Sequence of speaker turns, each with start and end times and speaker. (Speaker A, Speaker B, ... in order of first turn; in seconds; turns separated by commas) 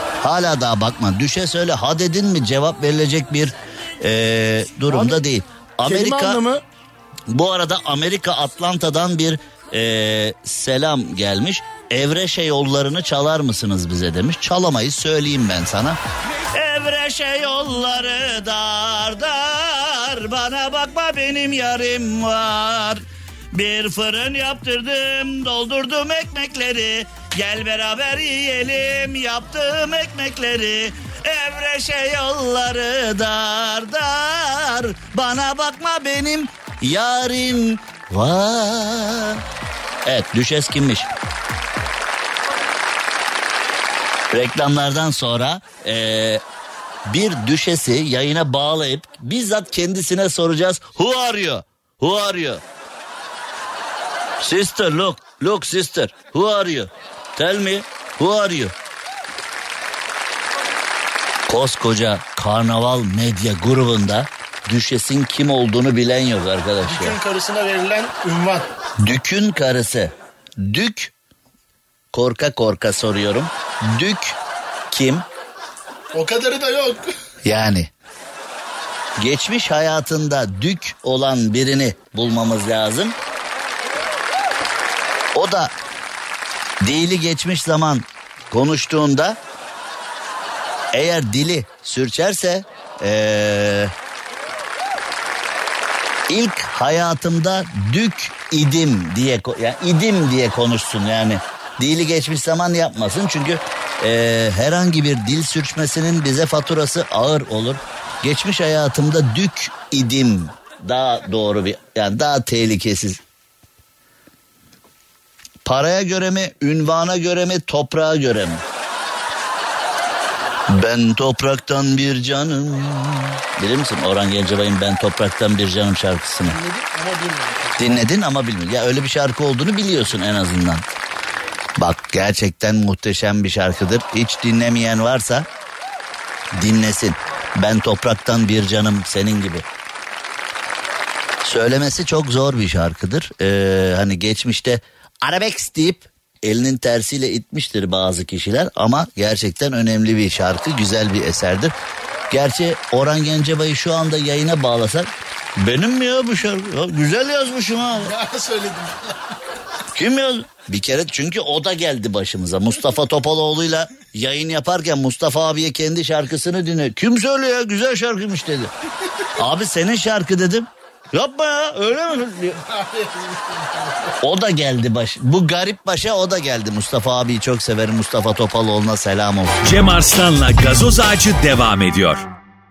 Speaker A: 0.2-6.4, Speaker B: 4.9-5.2, Speaker B: 5.8-6.6, Speaker A: 7.3-16.0, Speaker A: 16.5-39.4, Speaker A: 40.0-41.1, Speaker A: 44.3-46.4, Speaker A: 47.1-52.6, Speaker A: 54.4-58.7, Speaker A: 61.5-67.2, Speaker B: 66.8-68.7, Speaker A: 69.0-71.1, Speaker A: 72.1-74.4, Speaker A: 74.9-75.3, Speaker B: 76.1-77.1, Speaker A: 77.5-77.9, Speaker A: 79.2-83.2, Speaker A: 85.3-85.7, Speaker A: 86.8-89.4, Speaker A: 90.9-93.9, Speaker A: 96.3-113.2, Speaker A: 115.7-118.6, Speaker A: 120.7-126.6, Speaker B: 126.5-127.9, Speaker A: 127.8-130.8, Speaker A: 131.8-135.5, Speaker A: 136.6-139.7, Speaker A: 141.4-151.7, Speaker A: 152.3-155.1, Speaker A: 155.6-158.1, Speaker B: 158.0-159.3, Speaker A: 159.9-168.7, Speaker A: 169.4-172.6, Speaker B: 172.7-174.2, Speaker A: 174.2-179.6, Speaker C: 179.6-182.3